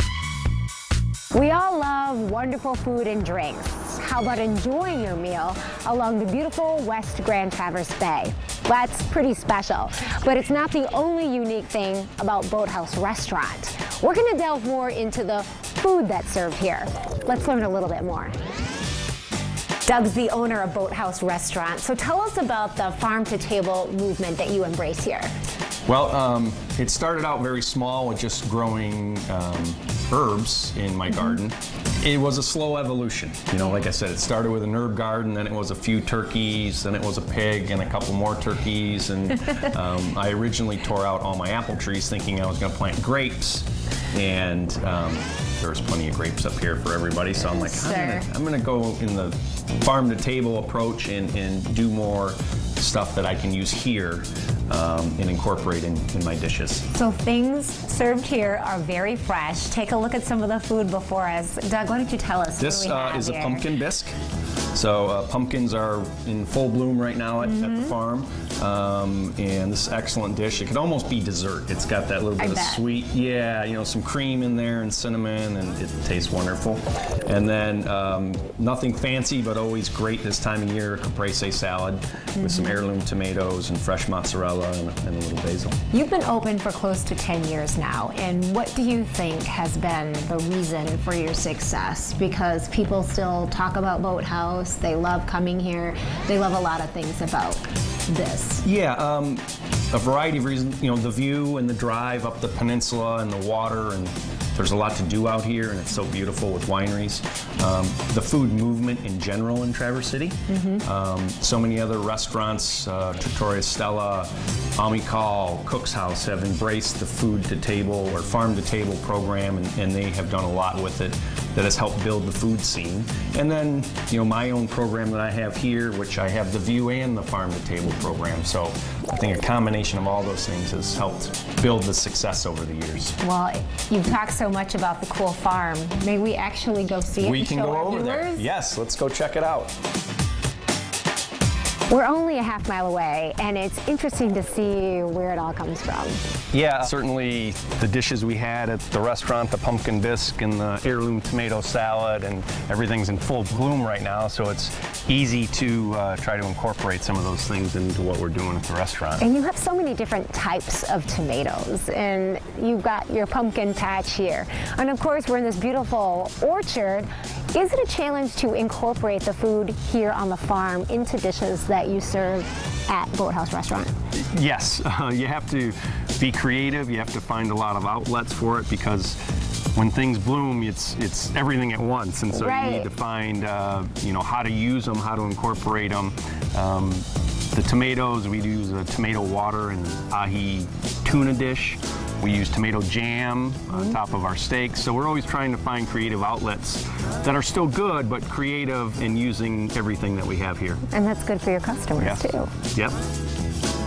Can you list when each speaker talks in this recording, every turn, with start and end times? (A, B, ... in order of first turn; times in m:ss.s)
0:01.3-0:18.4 A
0:19.8-0:25.3 A
0:25.9-0:56.8 B
0:47.4-0:48.3 A
0:56.9-1:03.7 A
1:02.6-1:04.2 B
1:04.7-1:25.8 B
1:07.4-1:07.9 A
1:12.4-1:12.8 A
1:22.4-1:22.8 A
1:25.9-1:38.6 A
1:38.6-2:13.2 B
1:50.5-1:50.8 A
2:13.2-2:18.5 A
2:17.2-2:19.7 B
2:21.9-2:26.2 A
2:26.5-2:39.2 B
2:39.2-2:53.9 A
2:54.2-2:59.2 B
2:59.8-3:20.8 B
3:02.3-3:02.9 A
3:20.9-3:22.5 A
3:22.0-3:23.0 B